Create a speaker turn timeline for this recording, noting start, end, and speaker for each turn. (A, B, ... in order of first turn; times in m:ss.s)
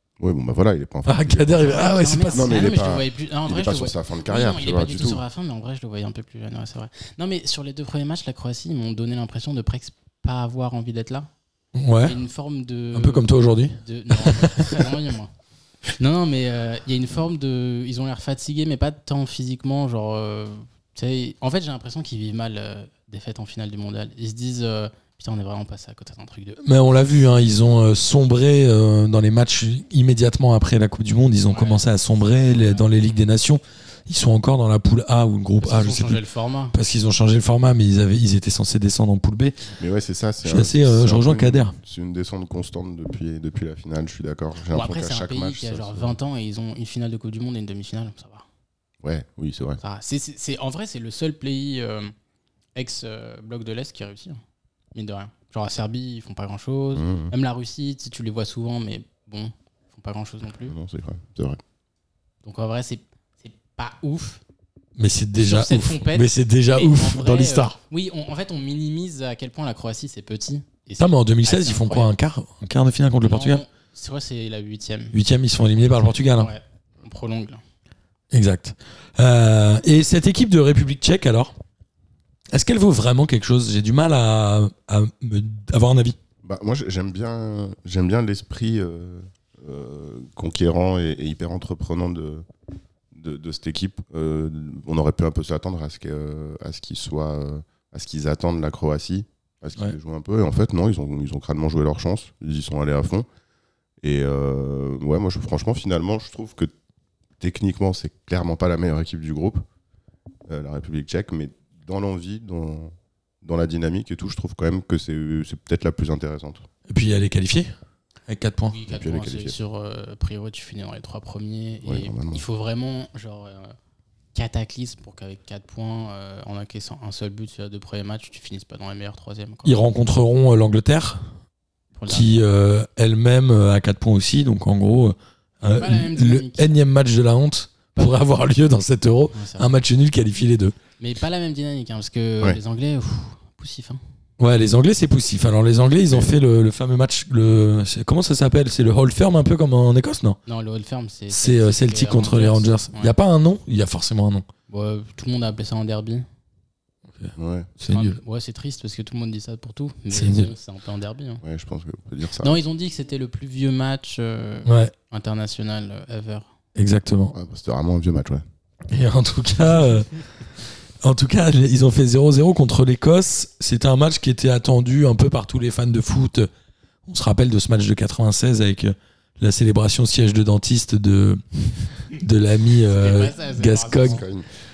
0:00.2-0:05.2 A
0:01.0-0:02.7 B
0:01.6-0:11.3 C
0:11.8-0:12.2 B
0:12.0-0:15.3 C
0:12.9-0:14.9 B
0:16.0-0:26.7 C
0:26.6-0:36.2 B
0:31.5-0:32.9 C
0:35.6-0:36.8 C
0:36.7-0:39.6 B
0:39.8-0:46.2 A
0:40.4-0:41.8 B
0:44.7-0:48.4 C
0:49.0-0:49.8 A
0:49.8-0:52.1 C
0:52.7-0:54.4 C
0:54.9-1:00.8 C
0:56.9-0:57.3 A
1:00.7-1:01.6 A
1:02.4-1:04.4 C
1:05.0-1:07.8 B
1:05.4-1:12.1 C
1:11.0-1:13.6 B
1:13.2-1:17.6 C
1:15.1-1:16.5 B
1:18.3-1:21.5 B
1:22.5-1:26.2 B
1:26.4-1:32.4 A
1:33.1-1:43.3 A
1:44.0-1:46.7 A
1:47.4-1:49.6 A
1:50.5-1:56.6 A
1:56.9-1:57.7 B
1:58.3-1:58.8 B
1:58.7-2:03.7 C
1:58.9-1:59.6 A
2:01.8-2:02.4 A
2:04.3-2:09.8 C
2:09.6-2:11.3 B
2:12.0-2:12.3 C
2:12.1-2:20.8 B
2:15.7-2:16.7 C
2:19.3-2:19.7 C
2:21.0-2:24.0 C
2:24.4-2:30.4 B
2:30.4-2:33.1 C
2:31.3-2:34.5 B
2:34.7-2:36.2 C
2:37.1-2:38.2 B
2:37.4-2:37.7 A
2:37.9-2:41.4 C
2:40.1-2:40.5 B
2:41.4-2:42.6 A
2:42.4-2:46.5 C
2:44.6-2:44.9 B
2:46.8-2:47.3 B
2:47.3-2:48.4 A
2:48.9-2:50.2 B
2:51.0-2:56.5 B
2:57.0-3:04.2 B
3:02.9-3:04.2 C
3:04.0-3:04.4 A